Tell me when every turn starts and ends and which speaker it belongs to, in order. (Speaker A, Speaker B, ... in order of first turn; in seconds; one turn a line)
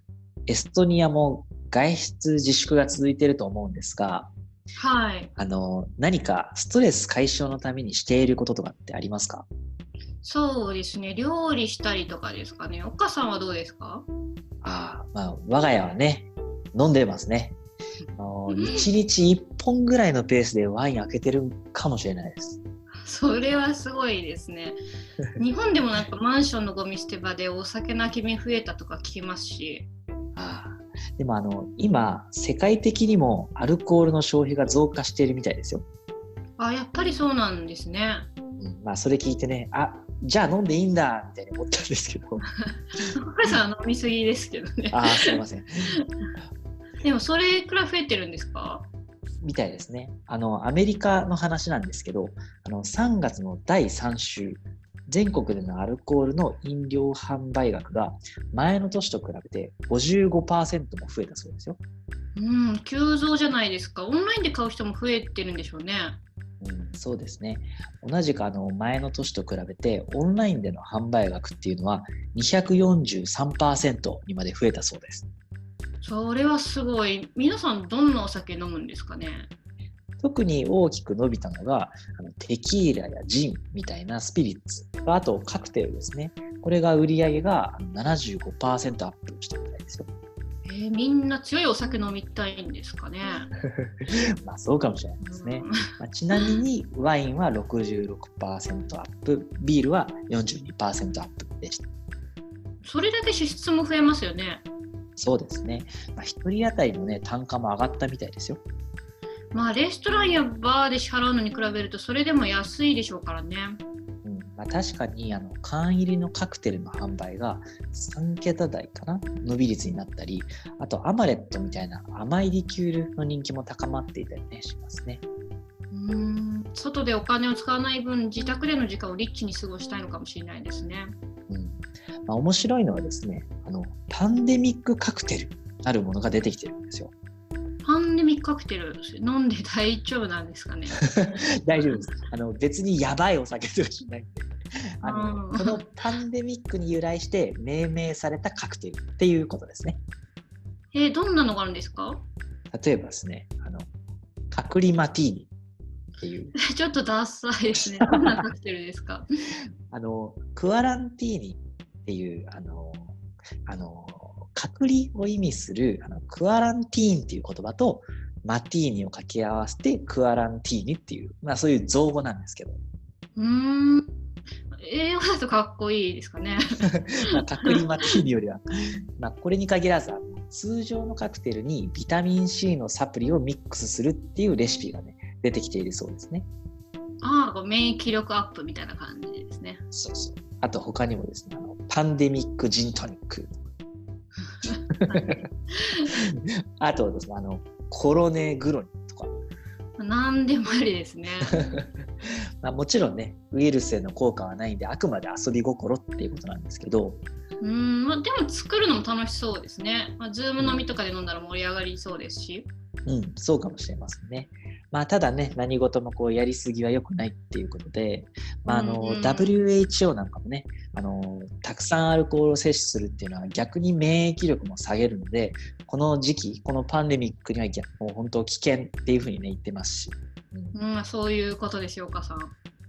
Speaker A: 0.5-4.3
Speaker B: 4.8-5.3
Speaker A: 5.4-9.5
Speaker B: 10.2-14.1
Speaker A: 14.6-17.6
Speaker A: 18.1-22.6
Speaker B: 18.5-18.9
Speaker B: 23.0-24.8
Speaker B: 25.4-29.9
Speaker A: 30.4-35.8
Speaker B: 36.6-38.3
Speaker A: 38.6-42.4
Speaker B: 43.2-45.4
Speaker A: 44.9-46.0
Speaker B: 46.0-46.3
Speaker B: 47.0-48.9
Speaker A: 49.4-61.8
Speaker B: 62.4-66.2
Speaker A: 66.6-75.3
Speaker B: 76.0-79.5
Speaker A: 80.2-90.1
Speaker B: 90.7-93.5
Speaker A: 93.8-101.9
Speaker B: 95.2-95.8
Speaker B: 96.3-96.6
Speaker B: 102.8-104.6
Speaker A: 105.2-108.6
Speaker B: 109.5-113.8
Speaker A: 114.2-125.2
Speaker B: 125.9-131.1
Speaker A: 131.5-137.1
Speaker B: 137.8-141.0
Speaker A: 141.0-150.0
Speaker B: 141.7-142.1
Speaker B: 145.0-145.9
Speaker B: 150.9-152.2
Speaker A: 152.7-153.9
Speaker A: 154.5-155.5
Speaker A: 156.2-156.6
Speaker B: 156.6-159.2
Speaker A: 158.0-158.5
Speaker A: 159.9-172.8
Speaker B: 173.3-174.1
Speaker B: 174.7-178.2
Speaker A: 176.8-178.6
Speaker A: 179.2-186.5
Speaker B: 187.2-189.8
Speaker A: 189.9-193.6
Speaker B: 194.5-196.1
Speaker A: 194.9-195.4
Speaker A: 196.1-199.3
Speaker B: 200.0-201.6
Speaker A: 201.5-201.9
Speaker A: 202.6-207.2
Speaker B: 207.6-212.7
Speaker A: 210.6-210.8
Speaker A: 213.1-230.8
Speaker B: 218.6-219.5
Speaker B: 230.7-232.5